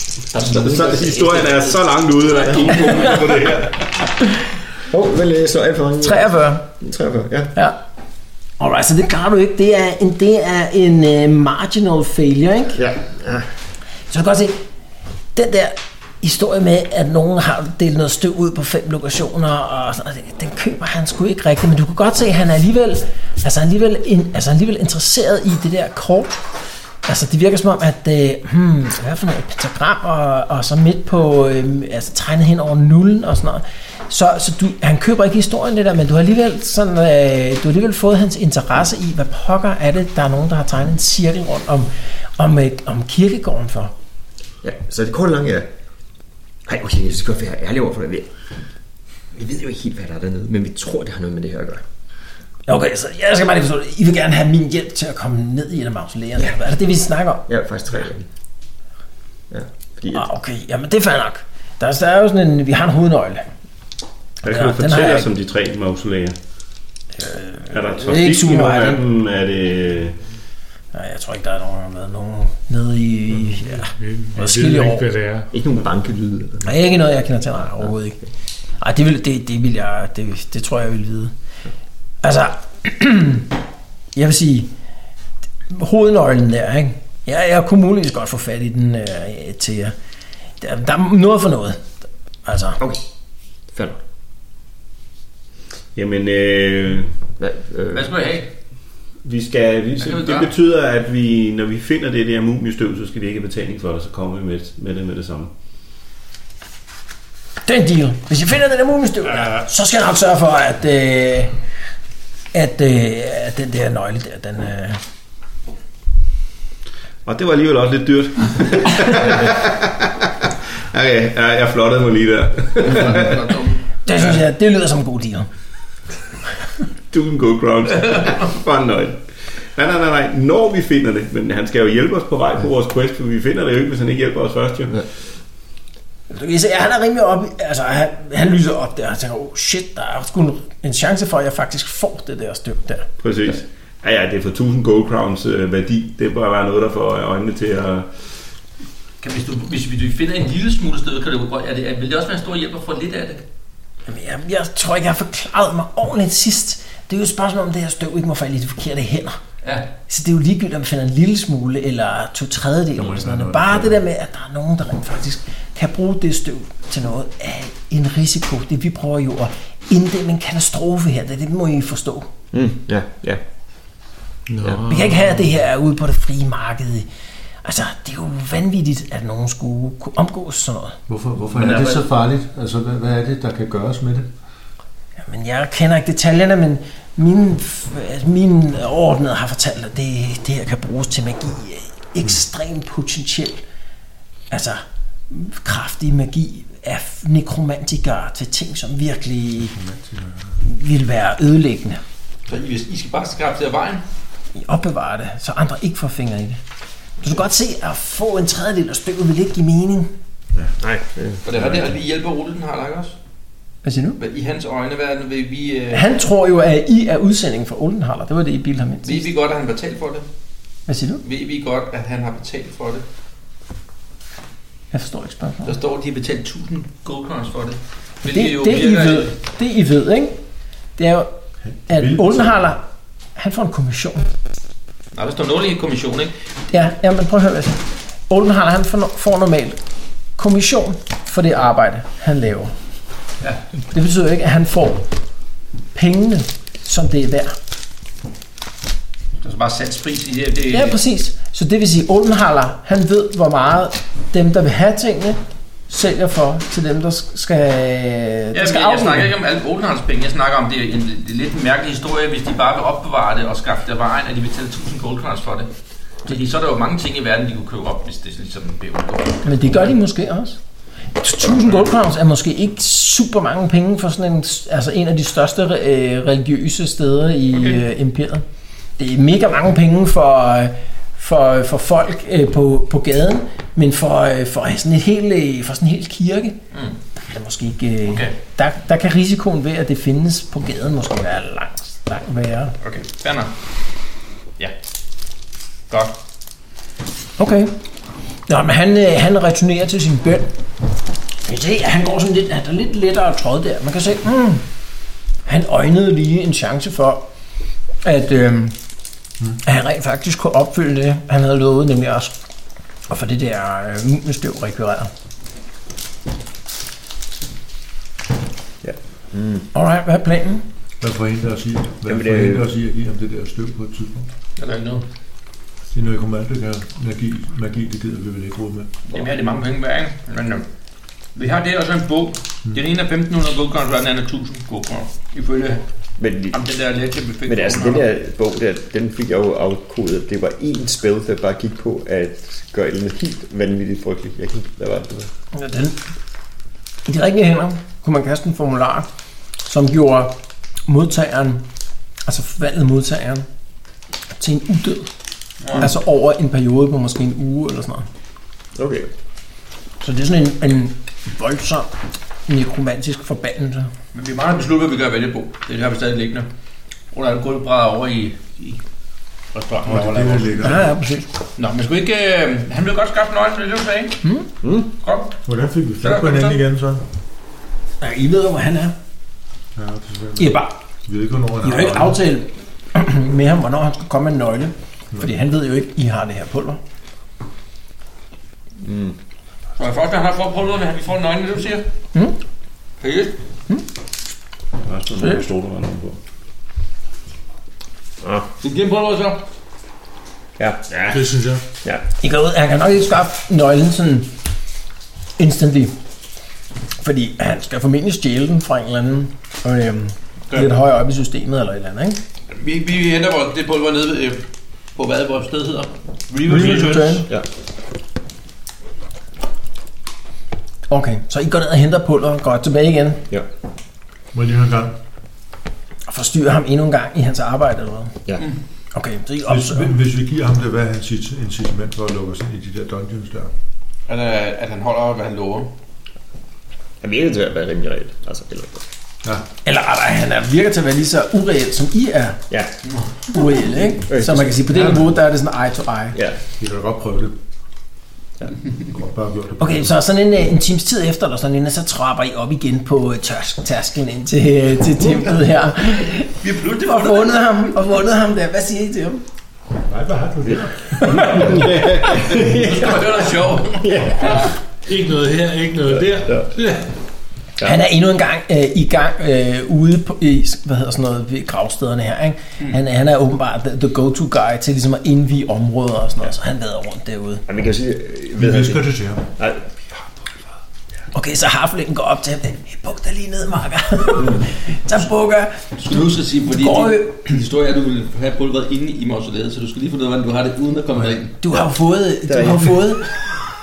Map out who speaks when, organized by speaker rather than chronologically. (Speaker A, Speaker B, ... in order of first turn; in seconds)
Speaker A: 0.3-1.8, 2.5-3.4, 4.8-7.5, 12.8-13.5, 44.6-45.7, 46.6-48.3, 49.3-51.8, 57.5-58.3, 59.5-60.3, 75.5-76.8, 93.7-94.0, 97.4-98.1, 172.5-173.4, 174.6-174.9, 210.8-211.4, 318.8-319.7, 322.1-322.7, 336.2-336.6, 337.4-345.3, 358.8-359.1, 374.6-374.9, 388.8-389.2, 398.2-398.5, 400.6-401.2, 437.0-438.8, 444.1-444.9, 446.1-446.4, 460.4-463.2, 463.8-464.5, 466.0-466.5, 477.5-478.9, 479.4-479.7, 492.3-493.0
Speaker B: 0.5-3.9, 64.4-66.3, 67.7-70.2, 95.9-97.1, 99.2-105.5, 117.2-123.4, 127.1-135.0, 143.2-148.1, 394.8-396.2
Speaker C: 2.9-3.1, 6.0-6.7, 8.6-12.8, 14.1-14.6, 15.3-26.4, 27.0-43.9, 52.7-57.5, 60.1-63.4, 64.4-65.3, 67.2-69.0, 70.9-75.0, 76.6-78.2, 78.8-81.3, 82.2-83.5, 84.1-84.7, 85.7-89.9, 90.6-91.8, 92.5-92.8, 107.6-111.5, 112.5-115.0, 124.0-125.5, 136.3-143.1, 154.1-159.4, 160.1-172.3, 174.9-177.1, 177.6-181.0, 185.2-193.6, 194.5-199.7, 200.6-202.0, 204.5-206.6, 207.2-210.1, 213.8-214.2, 215.9-219.3, 220.9-221.2, 224.9-225.8, 228.3-230.4, 231.0-231.3, 231.9-234.3, 236.7-239.8, 240.4-242.7, 243.9-245.1, 245.9-247.6, 250.7-259.3, 269.4-270.6, 271.2-278.4, 279.0-286.6, 287.3-292.8, 297.4-297.8, 298.5-300.5, 301.4-304.6, 305.4-307.3, 308.0-308.8, 309.6-312.4, 313.1-315.1, 319.7-320.6, 345.5-346.0, 347.1-349.1, 349.6-351.6, 352.2-353.5, 354.4-355.1, 355.7-358.1, 360.0-361.9, 362.5-363.9, 370.6-371.3, 378.0-378.9, 380.4-380.8, 381.6-386.8, 395.1-395.5, 402.2-404.3, 405.4-405.9, 407.0-412.2, 416.4-417.3, 420.9-423.2, 426.1-428.2, 428.9-429.9, 439.6-442.4, 443.3-446.2, 449.6-459.2, 461.0-461.5, 467.6-477.4, 481.1-487.4, 491.4-493.1
Speaker D: 73.6-75.5, 174.5-175.4, 401.1-401.6, 464.9-466.9
Speaker E: 97.9-98.5, 100.0-100.5, 122.8-123.8, 149.2-153.4, 159.6-159.9, 181.6-182.0, 202.5-204.0, 211.4-213.2, 214.2-216.1, 219.0-220.2, 221.2-223.0, 225.6-229.3, 235.1-236.3, 249.4-251.0, 258.5-265.7, 266.2-269.9, 277.5-277.8, 288.1-288.3, 292.8-293.5, 295.9-296.2, 324.6-325.1, 329.1-330.6, 331.3-335.8, 336.5-338.1, 355.6-355.9, 364.1-366.5, 367.1-368.8, 369.5-370.8, 371.6-374.2, 375.0-375.4, 376.0-376.6, 389.8-391.9, 393.0-393.4, 398.6-399.4, 412.5-417.3, 434.1-435.7, 456.4-457.5, 462.0-464.0, 485.8-491.4
Speaker F: 162.9-164.0, 181.1-184.3, 199.6-200.6, 231.6-232.6, 321.0-324.3, 325.9-328.9, 369.8-370.9, 375.4-377.1, 379.7-382.2, 424.3-425.0, 429.4-433.5, 444.7-445.0, 446.6-447.4, 448.9-449.9, 459.9-461.8, 478.4-479.3